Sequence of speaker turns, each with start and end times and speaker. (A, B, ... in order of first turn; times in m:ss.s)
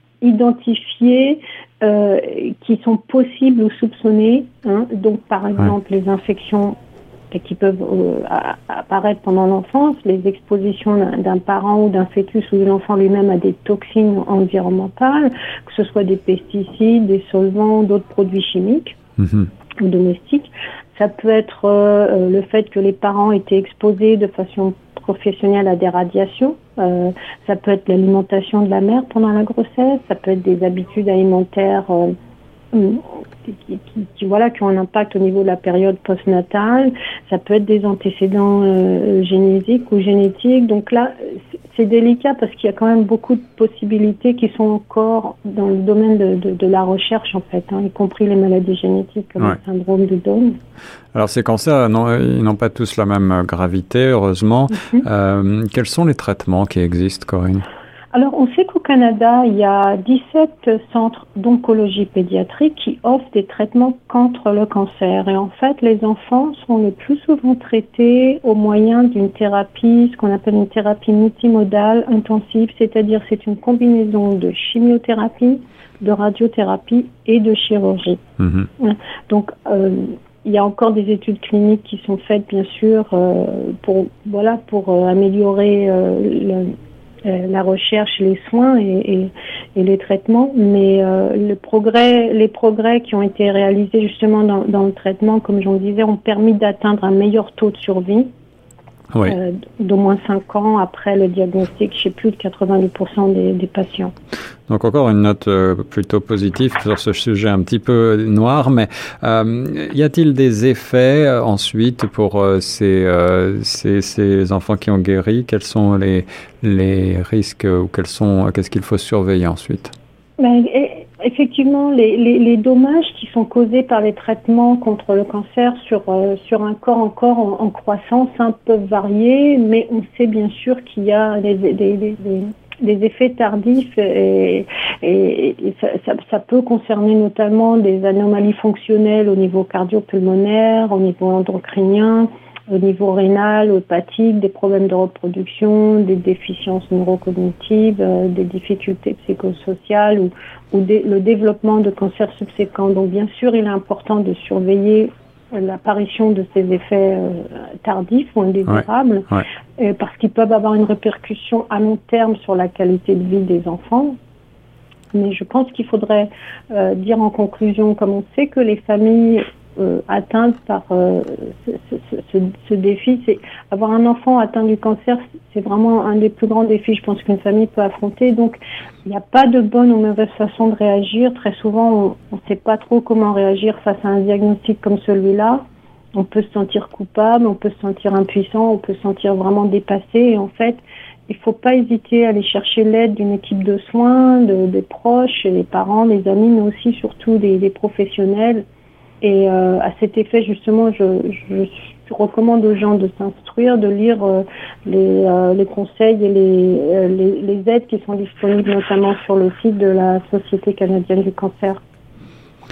0:00.2-0:06.8 A
0:07.3-0:18.9 A
0:19.2-0:19.5 B
0:19.8-0:32.1 A
0:32.7-0:50.6 A
0:51.1-0:57.6 B
0:54.7-0:55.0 A
0:58.1-1:18.2 A
1:18.4-1:18.7 B
1:18.8-1:26.7 A
1:27.2-1:38.3 A
1:39.2-1:44.1 A
1:44.7-1:59.9 B
2:00.4-2:44.2 A
2:45.1-3:05.6 A
3:06.2-3:18.6 A
3:19.2-3:31.8 A